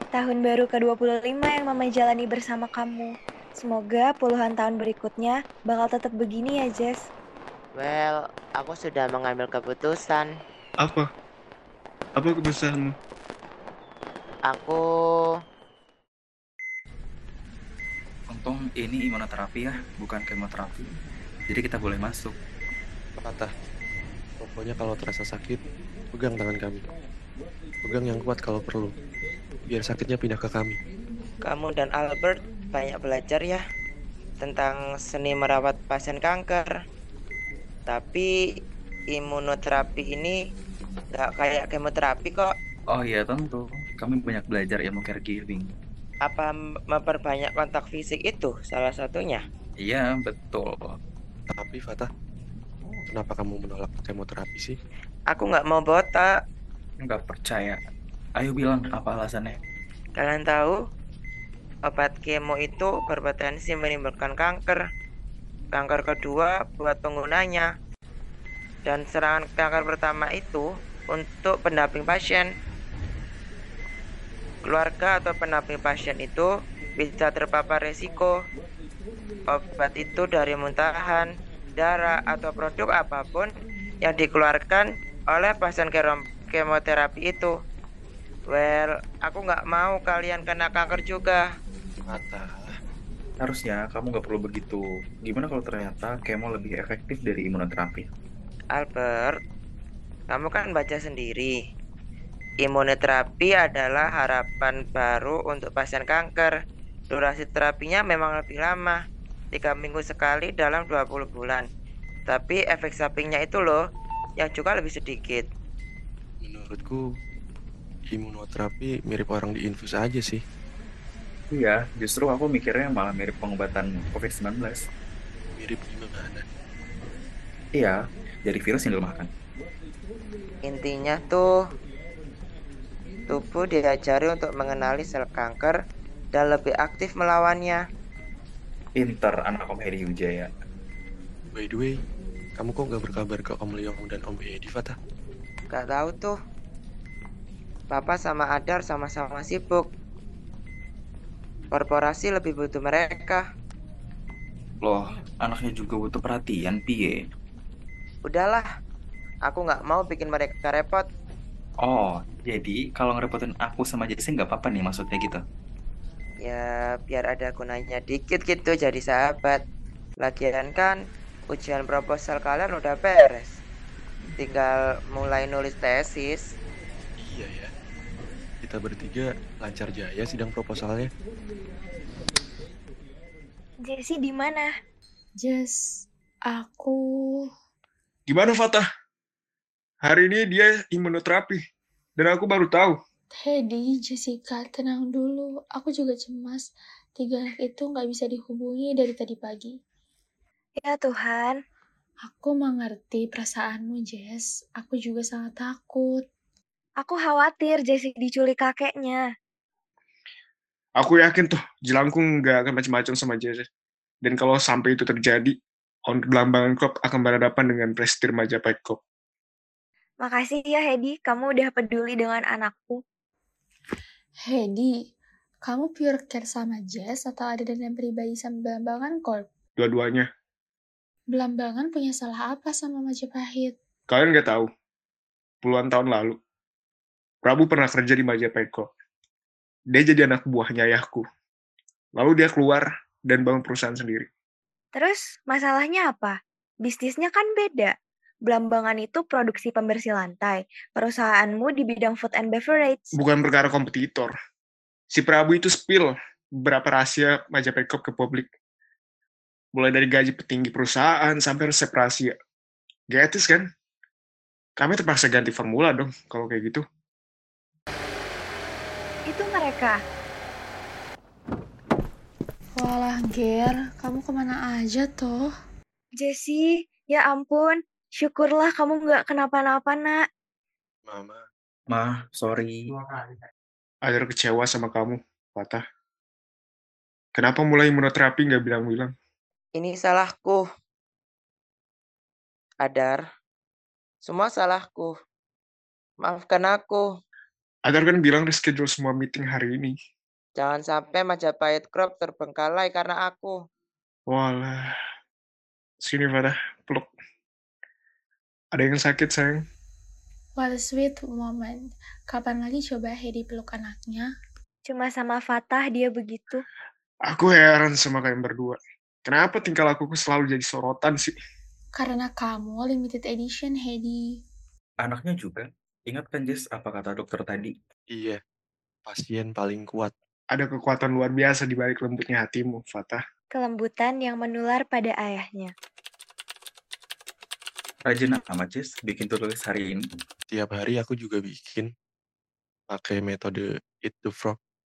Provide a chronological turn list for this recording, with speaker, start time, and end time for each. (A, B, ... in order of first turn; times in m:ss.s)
0:00.1-0:07.0 A
0:07.8-0:10.3 B
0:10.8-0:11.1 C
0:12.2-0:12.9 C
0:14.5-0:15.2 B
0:18.3-0:20.9 D
0:21.5-0:22.4 D
0:23.2-0:23.5 E
0:24.4-0:25.6 E
0:26.1-0:26.8 E
0:27.8-0:28.9 E
0:29.7-0:30.8 E
0:31.4-0:33.6 B
0:34.4-0:36.7 B
0:37.9-0:38.3 B
0:39.1-0:40.4 B
0:41.1-0:42.5 B
0:42.9-0:45.7 D
0:46.2-0:49.4 B
0:49.8-0:51.0 D
0:51.5-0:52.1 E
0:53.1-0:54.8 E
0:55.3-0:56.3 B
0:57.0-0:57.8 D
0:58.4-0:59.6 D
1:00.2-1:00.8 B
1:01.9-1:04.8 B
1:05.7-1:07.7 B
1:08.9-1:12.5 B
1:14.6-1:18.3 B
1:19.5-1:23.5 B
1:24.0-1:27.5 B
1:28.5-1:31.4 B
1:32.1-1:32.7 E
1:33.4-1:38.0 D
1:38.7-1:39.4 B
1:40.3-1:41.6 B
1:42.6-1:46.5 B
1:47.1-1:49.0 B
1:49.5-1:51.7 B
1:52.3-1:53.8 B
1:54.4-1:55.5 B
1:56.4-1:57.0 E
1:58.1-2:00.4 E
2:01.5-2:04.8 D
2:05.6-2:06.4 E
2:07.8-2:09.3 D
2:10.6-2:11.5 B
2:13.3-2:15.8 B
2:16.3-2:17.8 B
2:19.0-2:20.5 D
2:21.5-2:21.9 E
2:22.6-2:25.0 E
2:25.7-2:26.4 B
2:27.9-2:29.8 B
2:31.7-2:33.4 B
2:34.8-2:37.2 D
2:38.3-2:38.7 B
2:39.5-2:41.0 B
2:41.8-2:45.4 D
2:46.4-2:49.6 B
2:50.2-2:51.0 B
2:51.5-2:53.6 B
2:54.4-2:56.5 B
2:57.2-2:57.7 E
2:58.6-3:01.1 E
3:03.9-3:04.7 A
3:05.4-3:07.5 F
3:08.3-3:08.9 C
3:10.0-3:11.6 C
3:12.2-3:13.0 C
3:13.4-3:19.8 F
3:20.8-3:21.6 A
3:22.3-3:26.2 F
3:27.0-3:29.2 A
3:31.0-3:33.6 C
3:34.2-3:35.5 C
3:36.1-3:39.0 C
3:40.2-3:43.0 A
3:44.5-3:44.9 F
3:45.6-3:49.4 F
3:49.8-3:50.3 C
3:51.3-3:53.8 F
3:54.1-3:54.7 C
3:55.6-3:56.4 C
3:57.4-3:58.9 C
3:59.9-4:01.2 C
4:02.2-4:04.3 C
4:05.0-4:07.9 A
4:08.5-4:13.0 A
4:13.1-4:14.3 C
4:15.1-4:18.5 C
4:19.8-4:22.3 C
4:23.1-4:23.7 C
4:24.8-4:26.8 C
4:29.3-4:30.0 A
4:32.8-4:35.5 F
4:36.2-4:40.2 A
4:41.1-4:41.4 E
4:41.9-4:42.8 D
4:44.1-4:45.8 C
4:47.4-4:49.1 C
4:49.8-4:50.6 B
4:52.8-4:53.2 B
4:54.2-4:55.1 B
4:56.2-4:57.0 B
4:57.9-5:00.0 C
5:00.6-5:03.5 B
5:04.3-5:04.9 C
5:06.0-5:07.1 C
5:08.8-5:09.6 C
5:10.6-5:14.3 F
5:14.9-5:16.6 A
5:17.3-5:21.3 C
5:22.0-5:24.2 F
5:25.0-5:27.8 D
5:28.1-5:28.4 E
5:29.0-5:30.1 E
5:30.5-5:33.2 C
5:33.5-5:35.7 A
5:38.1-5:40.0 D
5:40.5-5:41.9 E
5:42.9-5:44.6 E